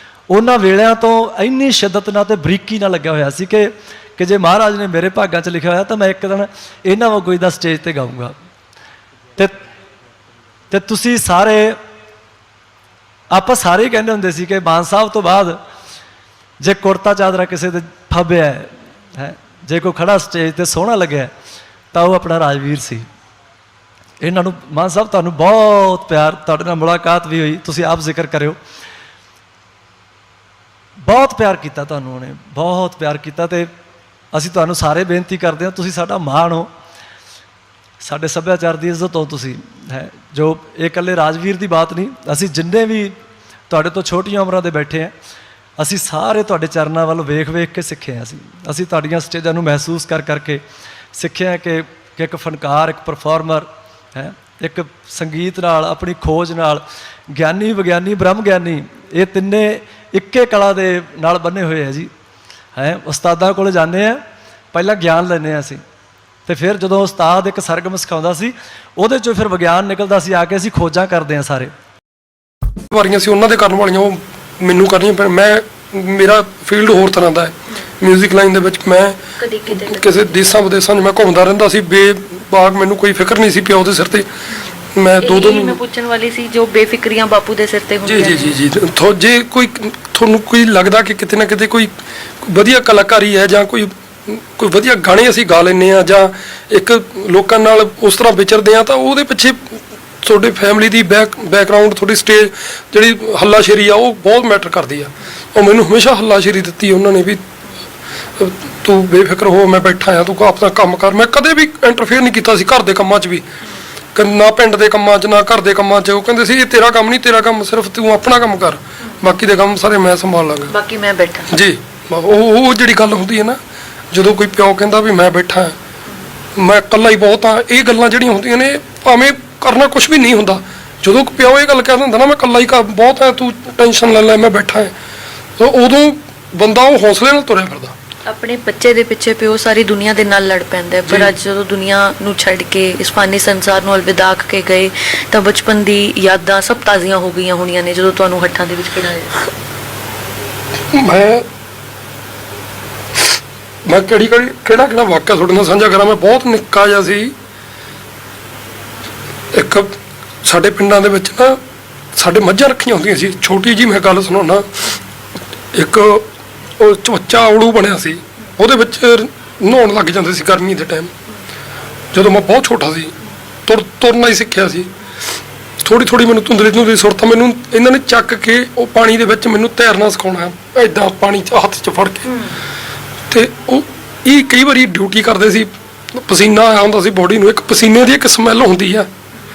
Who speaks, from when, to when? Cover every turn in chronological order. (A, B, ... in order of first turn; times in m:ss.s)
0:00.3-0:08.3 A
0:10.7-0:11.8 A
0:13.3-0:15.6 A
0:16.6-0:21.3 A
0:21.9-0:23.1 A
0:24.2-0:28.6 A
0:31.0-0:33.7 A
0:34.3-0:36.7 A
0:38.0-0:43.2 A
0:43.7-0:45.1 A
0:45.8-0:50.6 A
0:51.1-1:02.1 A
1:02.8-1:04.2 A
1:04.7-1:05.8 A
1:06.5-1:11.7 A
1:12.9-1:24.3 B
1:19.4-1:20.2 C
1:24.5-1:28.6 C
1:24.9-1:25.8 B
1:28.0-1:31.9 B
1:32.4-1:47.4 B
1:48.4-1:53.5 B
1:54.2-2:00.8 B
2:00.7-2:01.5 C
2:01.5-2:03.6 B
2:04.1-2:05.8 B
2:06.6-2:14.9 B
2:15.6-2:18.0 B
2:18.3-2:29.3 C
2:21.0-2:21.4 B
2:30.9-2:31.4 B
2:33.9-2:37.3 B
2:39.5-2:41.6 B
2:42.2-2:45.0 B
2:45.7-2:46.3 B
2:46.8-2:51.1 B
2:52.1-2:53.2 B
2:53.7-2:54.9 B
2:55.8-3:02.3 B
3:03.3-3:09.1 B